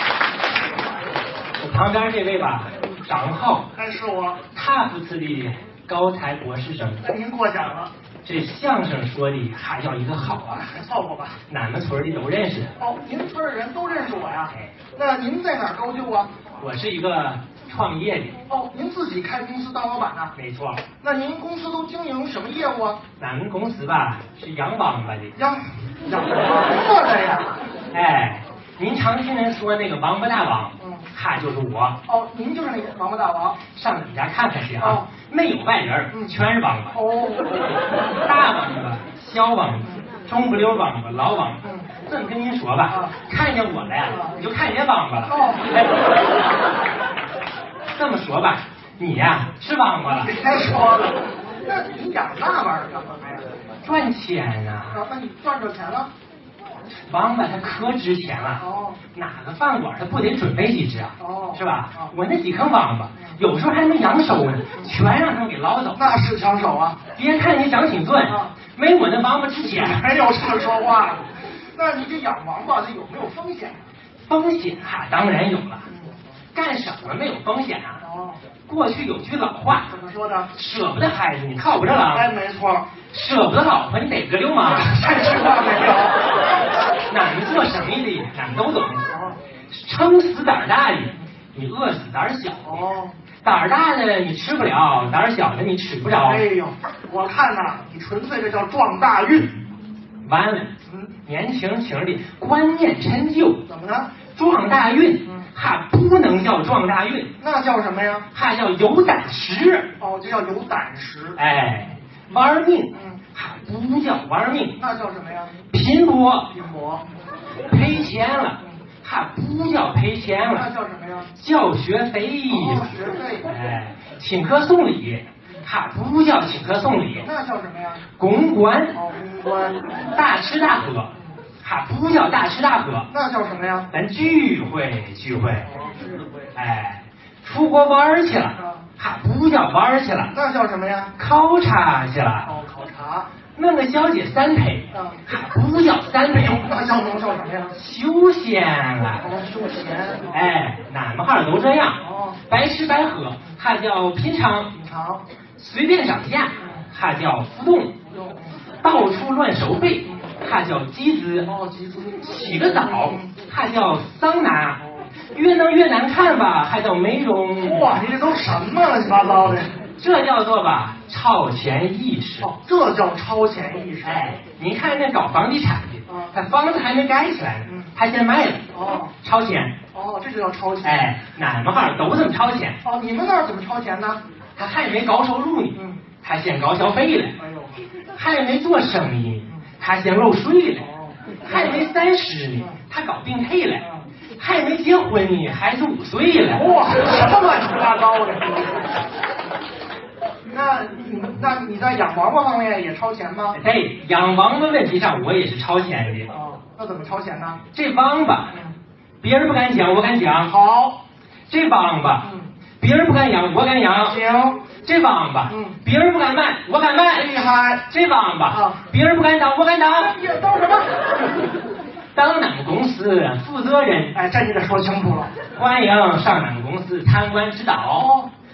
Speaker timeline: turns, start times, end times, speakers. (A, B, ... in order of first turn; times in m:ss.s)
0:01.6-0:03.7 A
0:03.7-0:04.4 B
0:04.5-0:07.1 A
0:07.0-0:07.9 B
0:08.2-0:10.7 A
0:10.4-0:11.4 B
0:11.5-0:12.7 A
0:12.8-0:16.3 B
0:16.6-0:18.4 A
0:18.5-0:20.3 B
0:20.3-0:20.8 A
0:21.0-0:23.0 B
0:23.2-0:25.4 A
0:25.4-0:27.6 B
0:27.9-0:32.0 A
0:30.8-0:31.0 B
0:32.0-0:33.6 B
0:33.7-0:37.0 A
0:34.8-0:35.0 B
0:36.9-0:37.8 B
0:38.2-0:45.9 A
0:41.6-0:41.9 B
0:44.1-0:44.4 B
0:45.3-0:45.7 B
0:47.9-0:50.3 A
0:50.2-0:53.5 B
0:53.8-0:55.0 A
0:54.9-0:56.1 B
0:57.1-1:06.1 A
0:58.6-0:59.0 B
1:01.2-1:02.1 B
1:05.9-1:07.0 B
1:07.1-1:10.0 A
1:08.3-1:08.5 B
1:09.6-1:13.8 B
1:14.2-1:15.9 A
1:15.9-1:16.2 B
1:16.5-1:18.0 A
1:18.0-1:18.4 B
1:18.7-1:19.9 A
1:19.9-1:20.5 B
1:20.5-1:22.3 A
1:22.1-1:22.9 B
1:23.1-1:24.9 A
1:24.7-1:26.2 B
1:27.1-1:29.1 A
1:29.1-1:29.4 B
1:29.7-1:32.9 A
1:32.6-1:33.1 B
1:33.4-1:36.4 A
1:36.2-1:39.5 B
1:40.2-1:40.7 A
1:40.8-1:41.1 B
1:41.2-1:43.6 A
1:43.7-1:44.1 B
1:44.3-1:47.3 A
1:47.4-1:48.3 B
1:48.3-1:49.9 A
1:50.0-1:51.4 B
1:51.4-1:54.8 A
1:52.9-1:53.2 B
1:54.8-1:55.6 B
1:55.7-1:56.5 A
1:56.5-1:57.0 B
1:57.7-2:00.7 A
2:00.4-2:01.3 B
2:01.4-2:07.3 A
2:02.5-2:03.5 B
2:07.2-2:08.0 B
2:08.2-2:09.0 A
2:08.9-2:10.0 B
2:10.1-2:13.1 A
2:13.1-2:13.9 B
2:13.9-2:15.7 A
2:15.7-2:16.2 B
2:16.5-2:20.3 A
2:18.6-2:18.8 B
2:20.3-2:21.1 B
2:21.2-2:22.5 A
2:22.4-2:23.3 B
2:23.5-2:26.7 A
2:24.9-2:25.2 B
2:26.3-2:27.8 B
2:27.7-2:29.2 A
2:29.2-2:30.3 B
2:30.3-2:34.7 A
2:32.0-2:32.4 B
2:34.7-2:35.2 B
2:35.6-2:37.9 A
2:38.1-2:38.6 B
2:38.8-2:41.5 A
2:41.4-2:43.3 B
2:42.2-2:44.8 A
2:45.3-2:47.9 A
2:47.6-2:49.7 B
2:50.0-2:52.5 A
2:52.4-2:54.3 B
2:54.0-2:59.8 A
2:56.1-2:56.3 B
2:58.7-2:59.1 B
2:59.9-3:01.1 B
3:00.8-3:02.8 A
3:02.8-3:04.2 B
3:04.6-3:07.4 A
3:05.7-3:06.0 B
3:07.4-3:07.8 B
3:08.1-3:10.9 A
3:10.8-3:11.8 B
3:11.4-3:16.7 A
3:16.5-3:18.9 B
3:20.5-3:23.6 B
3:23.5-3:26.3 A
3:26.3-3:27.6 B
3:27.7-3:28.6 A
3:29.2-3:30.5 A
3:30.4-3:31.0 B
3:31.5-3:32.3 A
3:32.2-3:32.5 B
3:32.8-3:34.2 A
3:34.0-3:34.6 B
3:34.8-3:37.3 A
3:35.5-3:35.8 B
3:37.1-3:37.8 B
3:37.9-3:40.1 A
3:38.5-3:38.8 B
3:39.9-3:41.2 B
3:42.1-3:44.2 A
3:44.1-3:45.3 B
3:45.5-3:48.1 A
3:47.9-3:48.3 B